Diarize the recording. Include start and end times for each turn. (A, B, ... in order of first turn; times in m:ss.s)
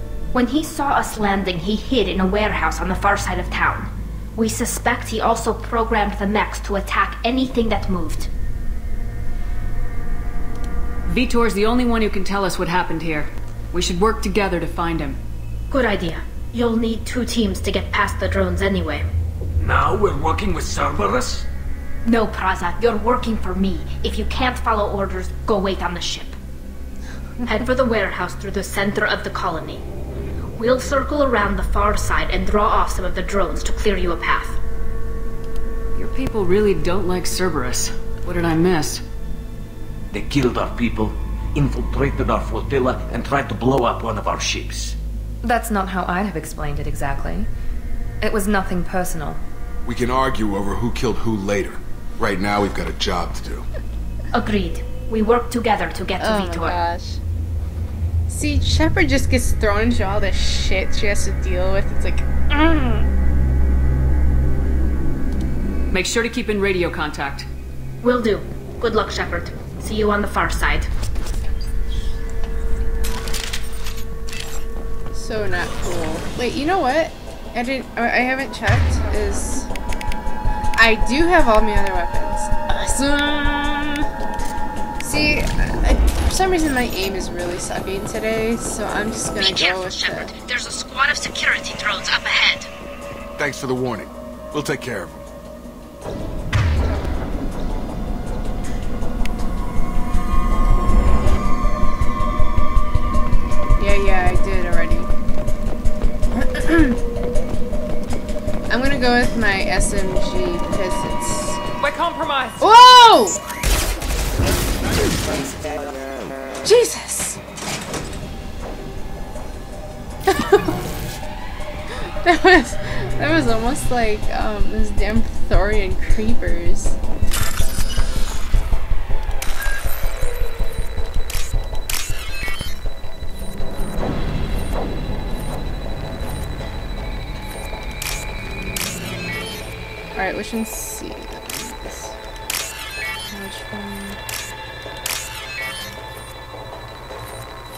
0:00.3-0:08.3 A
0:11.1-0:15.2 B
0:15.7-0:19.0 A
0:19.6-0:21.4 C
0:22.0-0:26.3 A
0:27.4-0:29.8 A
0:30.6-0:34.6 A
0:36.0-0:39.0 B
0:40.1-0:45.0 C
0:45.4-0:47.5 D
0:48.2-0:49.4 D
0:49.8-0:53.6 E
0:54.3-0:56.8 A
0:56.2-0:57.2 F
0:58.3-1:03.1 F
1:05.9-1:07.5 B
1:08.0-1:10.9 A
1:15.1-1:19.7 F
1:20.8-1:24.0 F
1:25.0-1:30.3 F
1:29.4-1:32.7 A
1:33.4-1:35.2 E
1:43.8-1:45.1 F
1:46.3-1:47.0 F
1:48.7-1:51.6 F
1:51.8-1:52.6 D
1:52.6-1:53.4 F
1:56.6-1:57.4 F
2:00.3-2:00.7 F
2:02.0-2:07.0 F
2:20.1-2:22.1 F
2:23.3-2:24.2 F